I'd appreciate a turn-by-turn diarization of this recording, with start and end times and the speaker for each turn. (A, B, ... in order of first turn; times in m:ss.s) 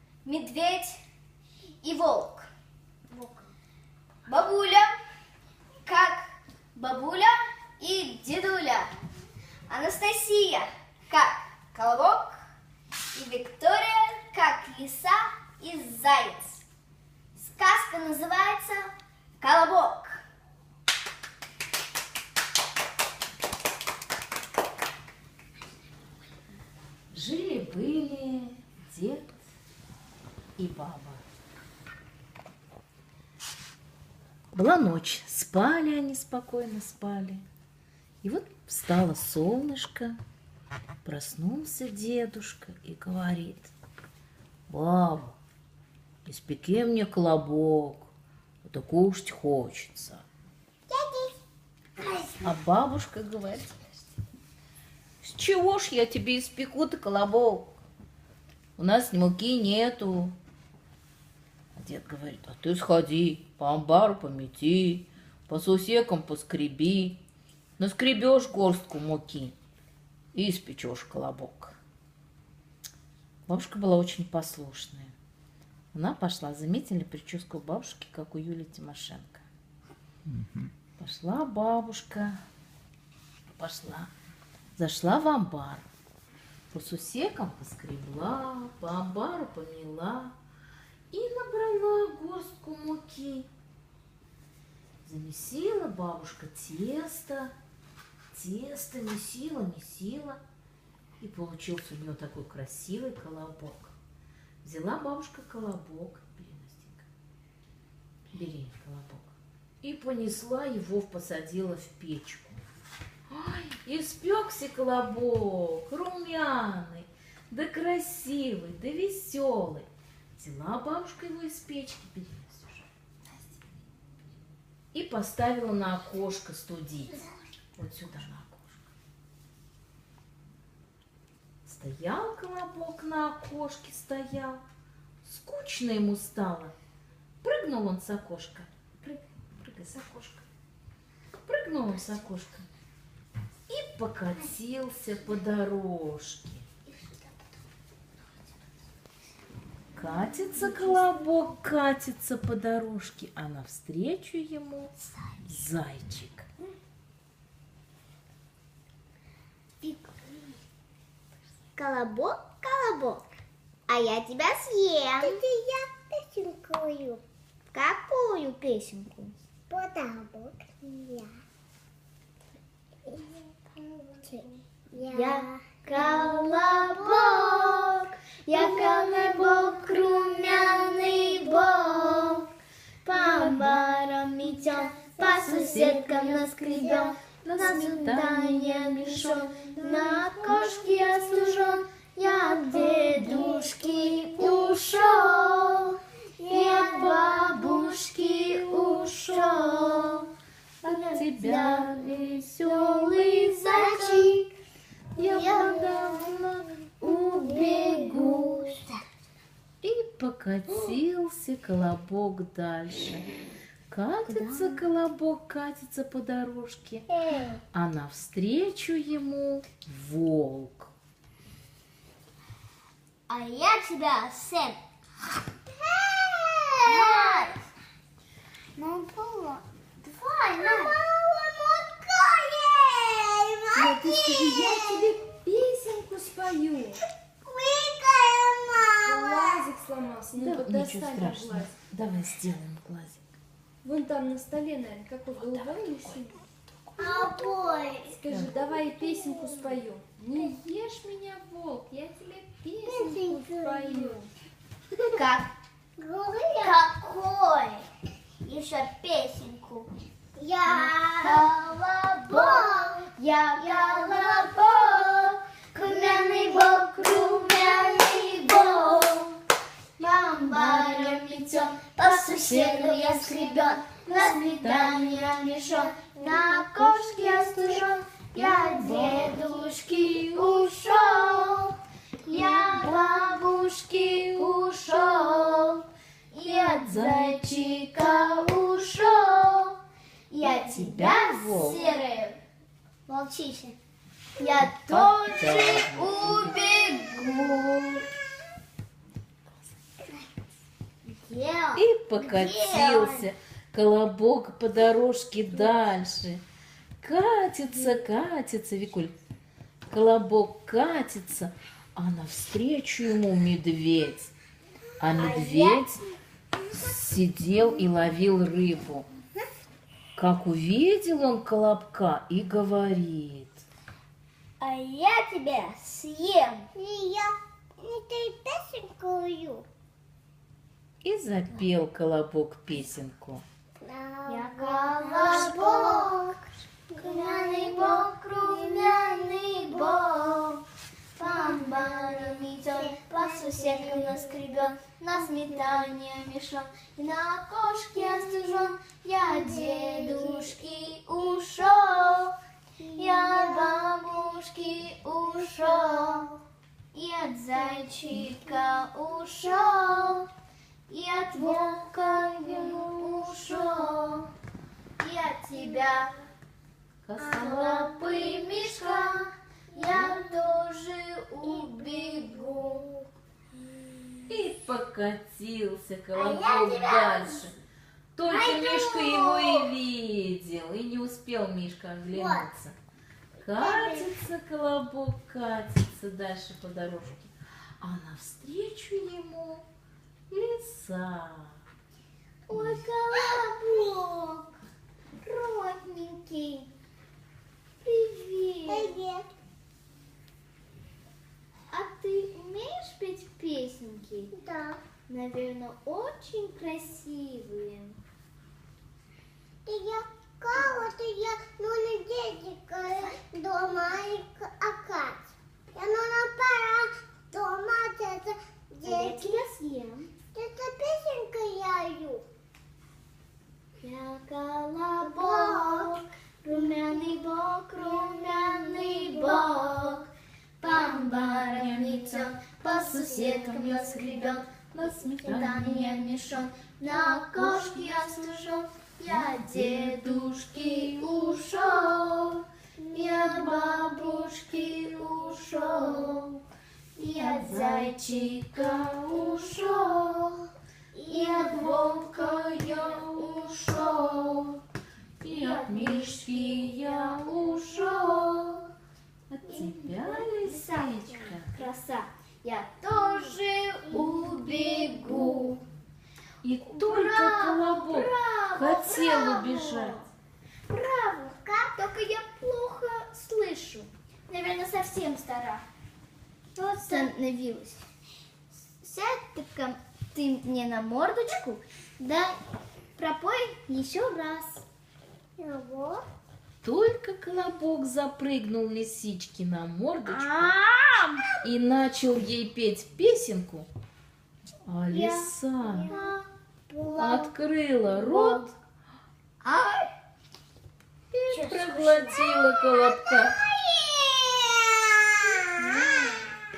0:00.2-0:01.0 A
0:01.8-0:02.5 A
0:04.3-0:04.9 A
0:05.8-0:08.9 A
0:09.7-0:12.4 A
0:13.1-0:16.6 A
0:17.4-0:20.2 A
0:27.1-0:29.4 B
0:30.6-0:31.2 B
0:34.5-0:37.4 B
0:38.2-0:40.2 B
0:41.0-0:43.7 B
0:44.7-0:45.4 B
0:46.3-0:48.1 B
0:48.6-0:50.3 B
0:50.9-0:51.4 C
0:52.0-0:52.6 C
0:52.4-0:54.0 B
0:55.2-0:57.8 B
0:58.8-1:00.4 B
1:01.8-1:07.2 B
1:07.8-1:09.6 B
1:10.3-1:11.8 B
1:13.5-1:15.1 B
1:15.9-1:19.4 B
1:21.0-1:22.4 B
1:23.5-1:24.1 B
1:24.8-1:25.9 B
1:26.7-1:30.3 B
1:31.1-1:33.5 B
1:35.0-1:37.5 B
1:38.3-1:40.4 B
1:41.2-1:44.0 B
1:44.6-1:47.1 B
1:48.3-1:52.6 B
1:53.3-2:02.9 B
2:04.9-2:07.2 B
2:07.8-2:08.9 B
2:11.7-2:14.6 B
2:15.2-2:16.7 B
2:17.4-2:20.4 B
2:21.4-2:22.7 B
2:23.7-2:26.7 B
2:30.0-2:34.9 B
2:35.4-2:36.5 B
2:39.8-2:40.4 A
2:41.8-2:43.2 A
2:43.9-2:45.4 A
2:45.2-2:47.2 C
2:47.7-2:49.3 A
2:49.7-2:51.3 C
2:53.1-2:53.4 C
2:54.1-2:55.6 C
2:55.1-3:02.5 A
3:03.0-3:20.3 A
3:05.4-3:06.0 C
3:05.6-3:06.4 B
3:07.4-3:08.6 B
3:13.1-3:13.3 C
3:16.4-3:16.8 C
3:20.8-3:24.5 A
3:21.2-3:23.4 B
3:24.1-3:24.3 C
3:25.2-3:28.5 B
3:25.3-3:25.8 A
3:27.0-3:28.8 A
3:29.8-3:33.3 B
3:33.9-3:37.1 B
3:34.3-3:34.7 A
3:37.2-3:37.6 C
3:37.7-3:40.9 B
3:43.3-3:44.8 A
3:45.9-3:47.6 C
3:46.8-3:47.6 A
3:48.8-3:49.1 A
3:49.0-3:49.6 C
3:50.0-3:51.0 A
3:50.5-3:55.2 C
3:53.7-3:57.0 D
3:57.4-3:59.7 C
3:59.0-4:01.8 D
4:00.4-4:03.2 B
4:03.8-4:06.4 D
4:05.3-4:07.3 B
4:07.0-4:09.8 C
4:08.2-4:14.3 D
4:08.3-4:08.5 B
4:12.8-4:14.2 C
4:15.1-4:15.5 A
4:16.0-4:16.8 C
4:16.5-4:17.8 A
4:18.4-4:19.9 A
4:20.4-4:21.6 C
4:20.6-4:29.4 A
4:22.2-4:23.0 C
4:23.8-4:24.4 C
4:30.0-4:41.8 A
4:32.4-4:32.8 B
4:32.6-4:33.5 C
4:42.3-4:49.8 A
4:46.8-4:47.4 B
4:50.3-4:52.4 A
4:50.4-4:52.0 B
4:53.1-4:53.8 C
4:54.4-4:58.0 A
4:54.7-4:56.6 B
5:01.2-5:01.8 A
5:01.7-5:06.4 B
5:02.2-5:03.3 C
5:07.0-5:09.2 B
5:09.9-5:14.3 B
5:15.0-5:16.0 B
5:15.2-5:15.7 C
5:15.3-5:15.6 A
5:16.8-5:19.1 B
5:20.2-5:23.6 B
5:24.6-5:26.7 A
5:26.7-5:29.6 C
5:31.0-5:33.4 B
5:33.8-5:36.4 C
5:34.3-5:36.4 A
5:36.9-5:37.9 C
5:36.9-5:40.6 A
5:38.5-5:39.3 C
5:41.2-5:52.3 A
5:41.2-5:44.2 C
5:49.7-5:50.4 C
5:52.8-5:53.8 C
5:52.9-5:56.4 A
5:56.9-6:00.3 A
6:00.9-6:04.3 A
6:05.0-6:06.1 A
6:07.0-6:08.0 B
6:07.2-6:12.8 A
6:11.6-6:12.8 C
6:13.8-6:14.2 C
6:14.3-6:17.6 B
6:16.1-6:17.5 C
6:18.2-6:22.8 B
6:18.3-6:19.7 C
6:22.1-6:22.5 C
6:23.4-6:29.6 B
6:23.5-6:24.1 C
6:30.3-6:31.6 B
6:32.5-6:34.6 A
6:35.2-6:36.7 A
6:37.8-6:39.0 A
6:38.7-6:39.3 C
6:41.7-6:44.3 A
6:44.3-6:44.8 C
6:45.1-6:48.0 A
6:49.7-6:55.2 C
6:55.7-6:59.4 C
6:58.8-7:00.1 A
7:00.3-7:02.2 C
7:03.8-7:10.1 A
7:05.2-7:05.9 C
7:10.6-7:26.4 A
7:13.0-7:14.0 B
7:14.8-7:15.7 B
7:22.8-7:23.2 C
7:27.0-7:30.5 A
7:27.2-7:28.0 B
7:31.0-7:31.4 C
7:31.0-7:34.6 A
7:32.3-7:33.6 B
7:35.2-7:38.0 B
7:35.2-7:38.7 A
7:39.3-7:41.6 B
7:39.5-7:45.6 A
7:46.4-7:50.0 B
7:46.7-7:50.0 A
7:50.7-7:55.6 A
7:56.6-7:57.1 C
7:56.8-7:57.8 A
7:58.8-8:02.4 A
8:03.0-8:04.7 A
8:05.4-8:06.0 C
8:06.6-8:10.5 B
8:10.1-8:11.3 A
8:11.4-8:13.7 B
8:14.6-8:15.9 B
8:14.9-8:16.2 A
8:15.6-8:16.1 C
8:16.7-8:17.3 C
8:17.0-8:18.6 B
8:18.0-8:18.5 A
8:19.4-8:19.9 A
8:21.1-8:23.4 B
8:21.3-8:22.2 C
8:23.3-8:25.8 C